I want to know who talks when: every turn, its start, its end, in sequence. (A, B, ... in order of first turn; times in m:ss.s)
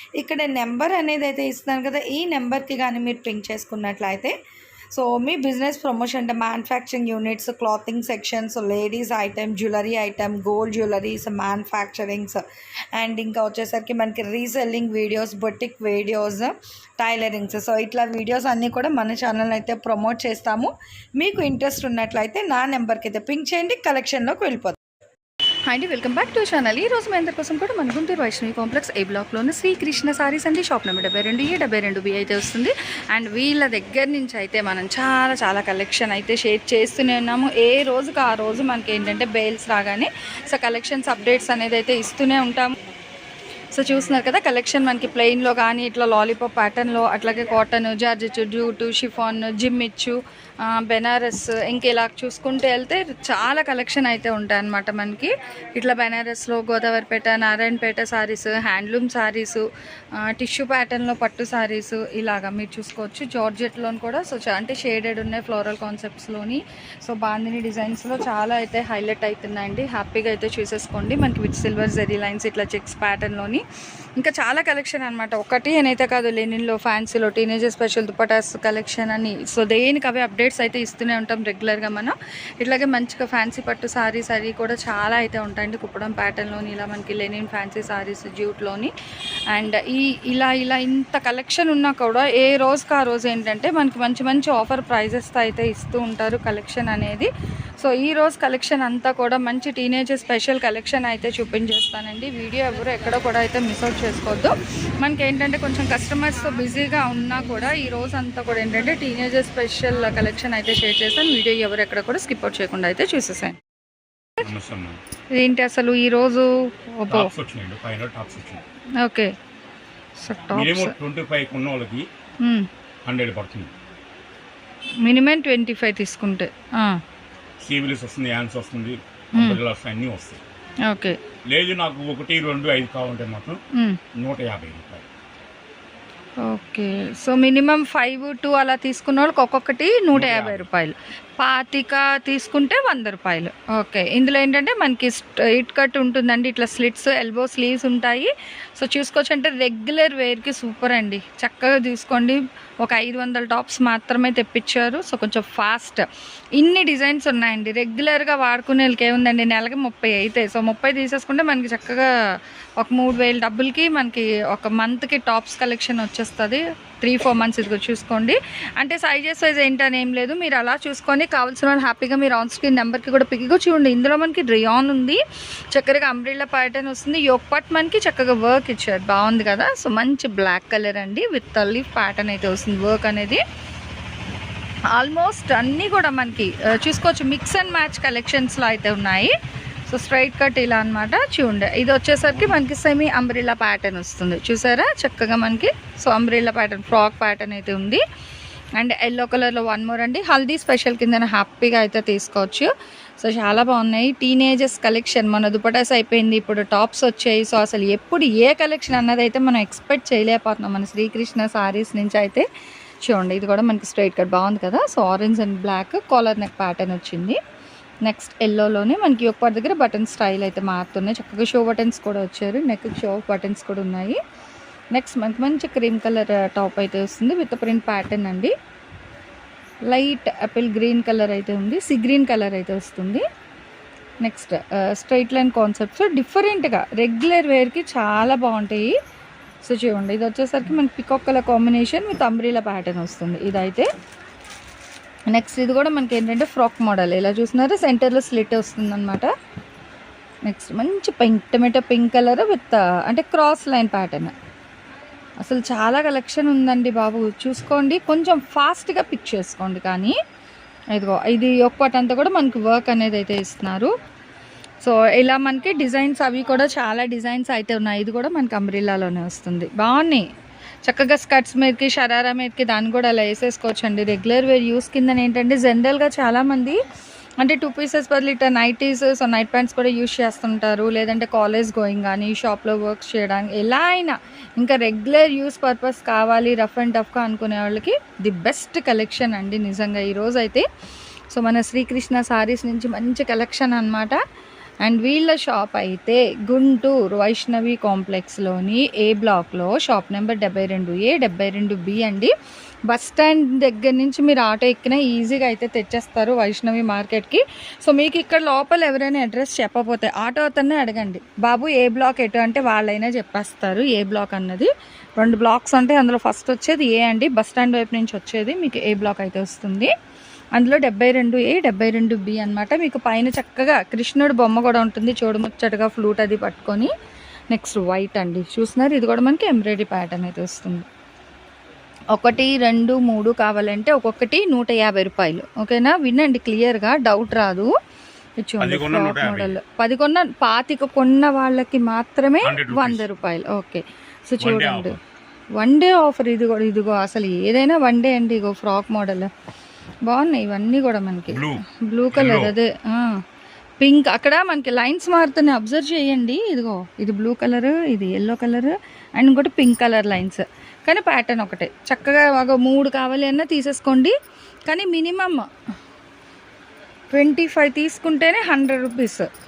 0:00.2-0:04.3 A
0:04.9-0:12.4 A
0:13.0-0:24.8 A
0:25.7-0:42.8 B
0:43.7-0:59.6 B
1:00.2-1:13.6 B
1:14.2-1:28.9 B
1:29.5-1:53.6 B
1:54.4-1:55.0 C
1:55.3-1:57.3 B
1:57.1-1:58.6 C
1:59.0-1:59.3 B
2:00.2-2:00.9 B
2:00.5-2:02.0 C
2:03.0-2:03.7 C
2:05.0-2:07.0 B
2:07.6-2:10.4 C
2:10.9-2:11.2 B
2:11.5-2:13.6 C
2:14.2-2:15.0 C
2:16.4-2:36.0 B
2:20.1-2:20.7 C
2:36.6-2:42.1 B
2:42.8-2:55.2 B
2:55.7-3:03.4 B
3:04.9-3:09.3 B
3:09.9-3:18.0 B
3:18.8-3:22.7 B
3:23.2-3:32.4 B
3:33.0-3:37.4 B
3:38.0-3:44.2 B
3:44.9-3:48.5 B
3:49.9-3:53.2 B
3:54.2-3:58.9 B
3:59.6-4:03.9 B
4:05.3-4:09.3 B
4:10.5-4:14.3 B
4:15.4-4:20.2 B
4:20.9-4:23.9 B
4:24.8-4:30.3 B
4:30.8-4:36.8 B
4:37.4-4:50.6 B
4:51.3-4:54.2 B
4:54.8-5:02.3 B
5:02.9-5:19.9 B
5:20.6-5:26.9 B
5:27.5-5:30.9 B
5:32.1-5:37.7 B
5:38.4-5:45.0 B
5:38.6-5:39.5 C
5:42.4-5:43.0 C
5:44.4-5:45.0 C
5:45.6-5:49.3 B
5:50.0-5:53.2 B
5:51.3-5:52.5 C
5:53.8-6:04.1 B
6:04.7-6:05.5 B
6:07.1-6:09.3 B